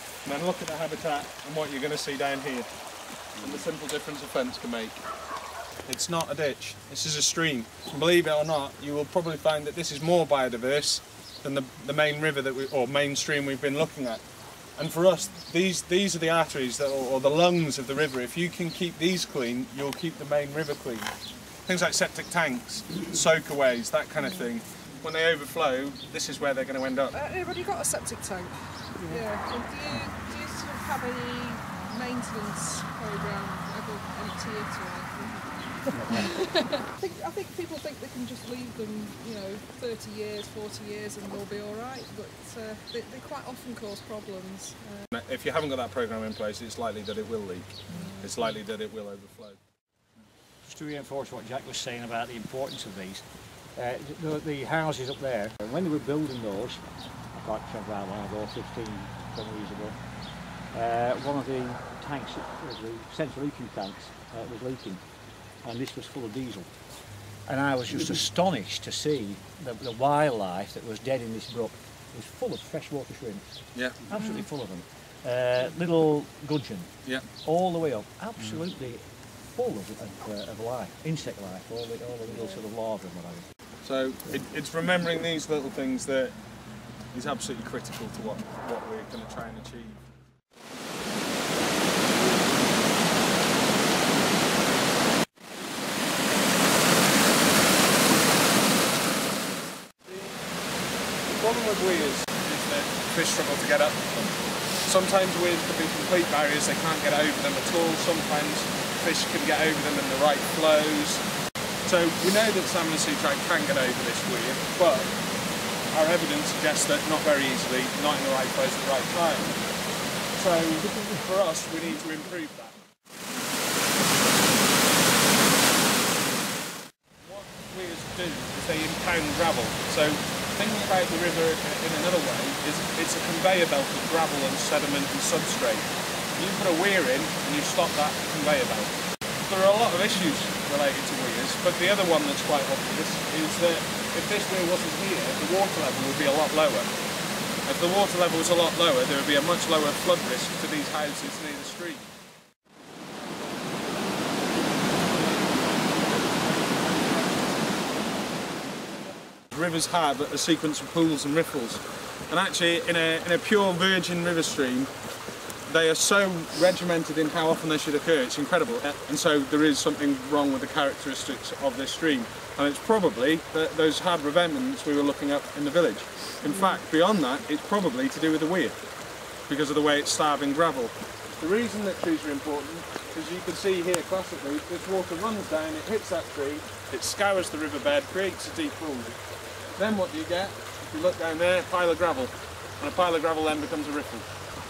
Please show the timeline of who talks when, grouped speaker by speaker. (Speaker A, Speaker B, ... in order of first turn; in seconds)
Speaker A: 0.2-2.7, 3.4-5.0, 5.9-14.2, 14.8-21.1, 21.7-27.1, 45.1-49.6, 73.7-74.0, 83.8-86.3, 87.1-90.0, 100.0-100.3, 101.3-111.2, 111.8-115.1, 115.9-119.6, 120.3-122.7, 127.2-138.9, 139.4-146.9, 147.7-152.1, 159.5-164.9, 165.7-178.8, 179.5-189.2, 189.8-194.3
Speaker B: 27.1-35.5, 36.0-45.0, 47.9-48.4
Speaker C: 29.0-29.2, 35.9-36.2, 50.6-60.0, 60.7-65.0, 65.6-66.7, 67.5-76.9, 77.4-83.4